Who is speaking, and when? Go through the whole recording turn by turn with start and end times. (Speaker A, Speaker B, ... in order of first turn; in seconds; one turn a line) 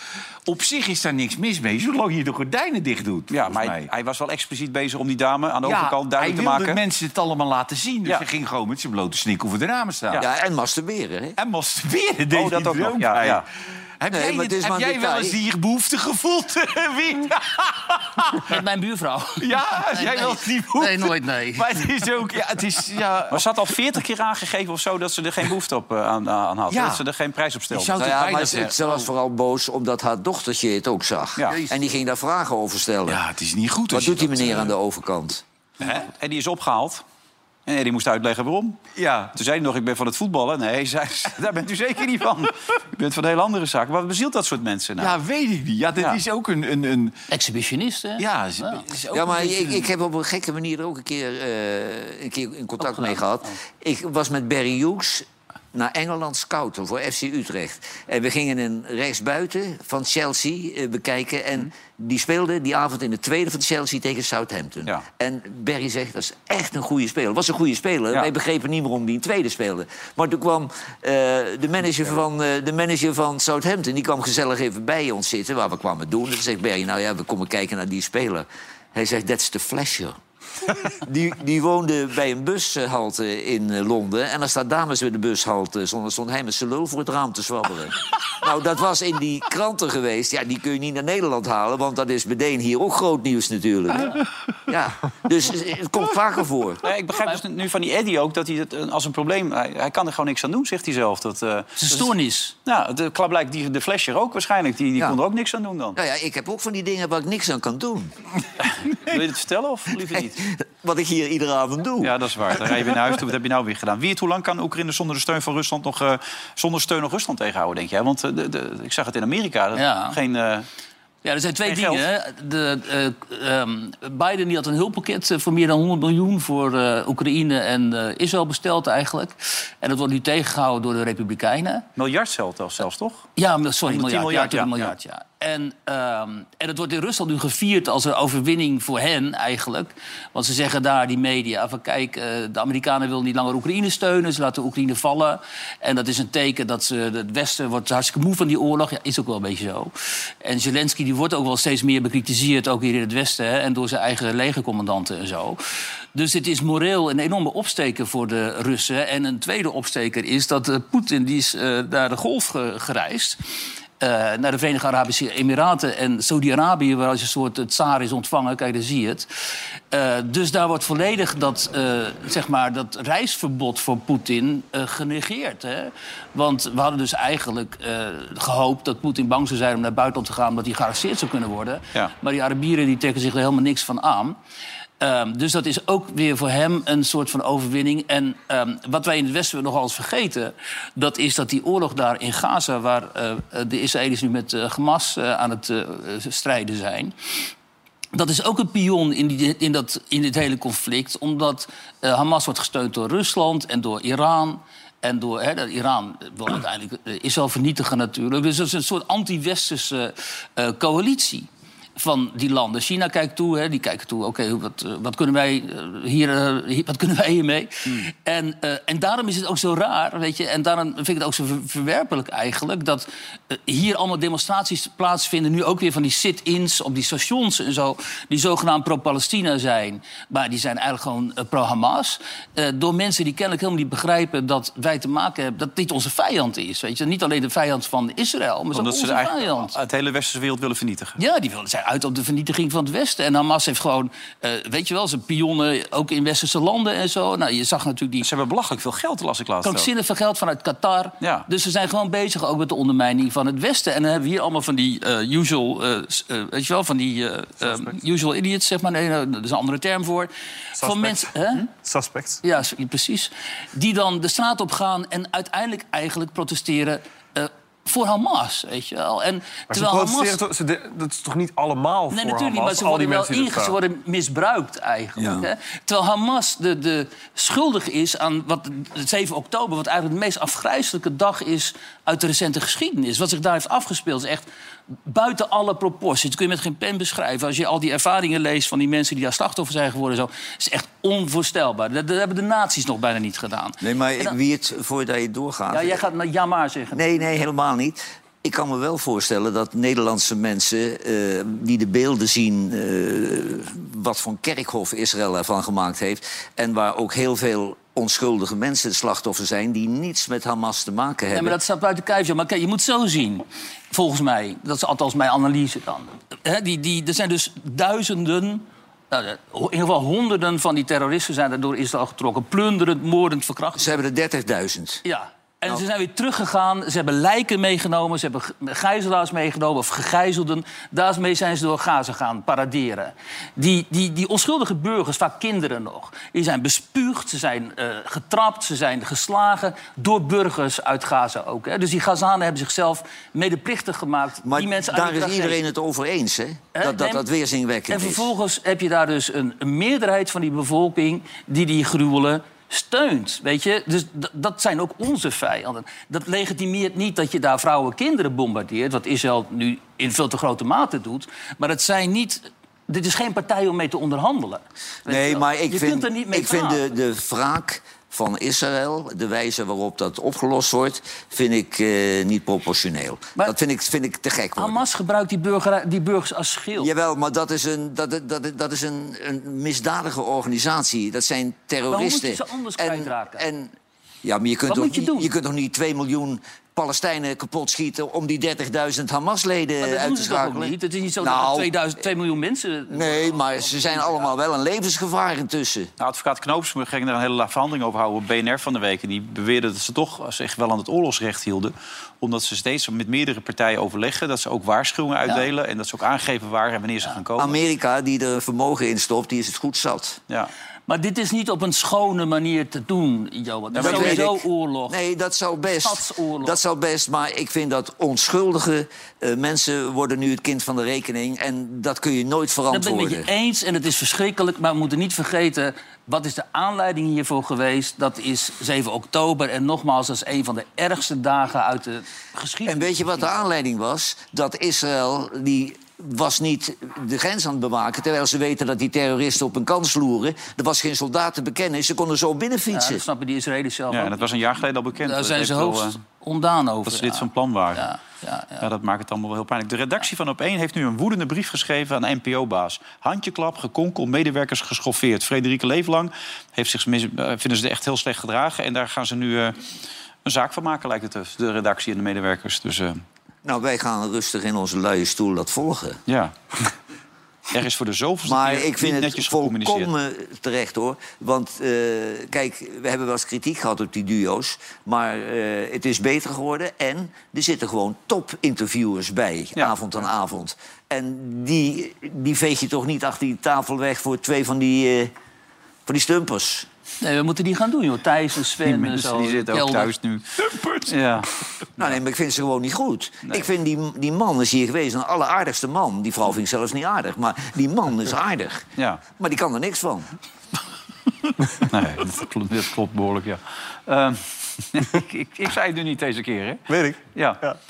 Speaker A: 0.5-3.9
Speaker B: 3.3-6.8
Speaker A: 5.6-10.2
Speaker C: 10.2-11.4
Speaker A: 11.4-13.4
Speaker B: 12.3-13.4
Speaker A: 14.0-18.6
Speaker C: 14.1-15.4
Speaker D: 18.4-21.9
Speaker A: 19.4-23.5
Speaker B: 23.3-28.0
Speaker A: 26.7-27.0
Speaker A: 27.7-28.8
Speaker C: 28.0-33.2
Speaker A: 33.1-34.7
Speaker C: 33.9-35.4
Speaker A: 35.8-36.1
Speaker B: 35.9-37.0
Speaker B: 37.6-38.8
Speaker A: 38.9-39.4
Speaker B: 39.3-45.2
Speaker A: 45.0-47.2
Speaker D: 47.3-48.8
Speaker A: 48.2-49.9
Speaker C: 49.1-80.2
Speaker D: 52.8-53.5
Speaker C: 80.7-96.8
Speaker B: 96.8-102.1
Speaker D: 101.8-102.5
Speaker B: 102.6-106.0
Speaker C: 105.9-108.1
Speaker B: 108.6-110.4
Speaker C: 110.1-112.2
Speaker B: 112.0-120.7
Speaker D: 119.7-120.2
Speaker D: 121.2-131.8
Speaker B: 121.6-122.0
Speaker B: 131.9-133.3
Speaker D: 133.4-149.9
Speaker B: 133.9-134.9
Speaker D: 150.4-155.6
Speaker D: 156.1-163.4
Speaker D: 164.0-169.3
Speaker D: 169.9-184.4
Speaker D: 185.0-197.1
Speaker D: 198.1-239.7
Speaker B: 238.7-241.2
Speaker D: 241.2-248.3
Speaker B: 248.2-249.9
Speaker D: 249.6-261.7
Speaker B: 251.2-251.5
Speaker E: 257.6-257.9
Speaker E: 260.8-262.4
Speaker D: 262.4-270.4
Speaker E: 269.7-273.8
Speaker D: 272.1-284.5
Speaker D: 285.1-294.4
Speaker C: 293.8-296.0
Speaker D: 295.7-297.3
Speaker C: 296.9-311.6
Speaker D: 311.3-324.0
Speaker C: 323.8-325.0
Speaker D: 325.0-345.6
Speaker C: 344.4-348.3
Speaker D: 346.7-347.2
Speaker D: 347.9-366.8
Speaker C: 365.1-374.8
Speaker D: 374.6-376.9
Speaker C: 376.8-391.7
Speaker D: 381.9-383.4
Speaker D: 384.7-385.3
Speaker D: 389.8-394.3
Speaker C: 392.9-395.9
Speaker B: 396.0-407.6
Speaker C: 407.4-410.2
Speaker D: 410.9-415.0
Speaker B: 413.7-414.3
Speaker C: 413.8-423.3
Speaker D: 415.7-416.6
Speaker D: 422.7-433.3
Speaker C: 432.6-443.0
Speaker D: 442.7-444.2
Speaker B: 443.9-446.0
Speaker D: 445.0-448.7
Speaker B: 446.9-447.9
Speaker B: 448.6-459.6
Speaker B: 460.2-463.0
Speaker C: 463.4-466.0
Speaker B: 466.1-466.7
Speaker B: 467.5-469.9
Speaker C: 468.2-485.1
Speaker C: 485.9-486.7
Speaker D: 487.0-489.9
Speaker B: 488.6-491.9
Speaker C: 491.8-498.6
Speaker B: 498.8-499.0
Speaker C: 499.2-500.1
Speaker B: 501.6-506.6
Speaker E: 506.7-507.6
Speaker B: 507.1-507.4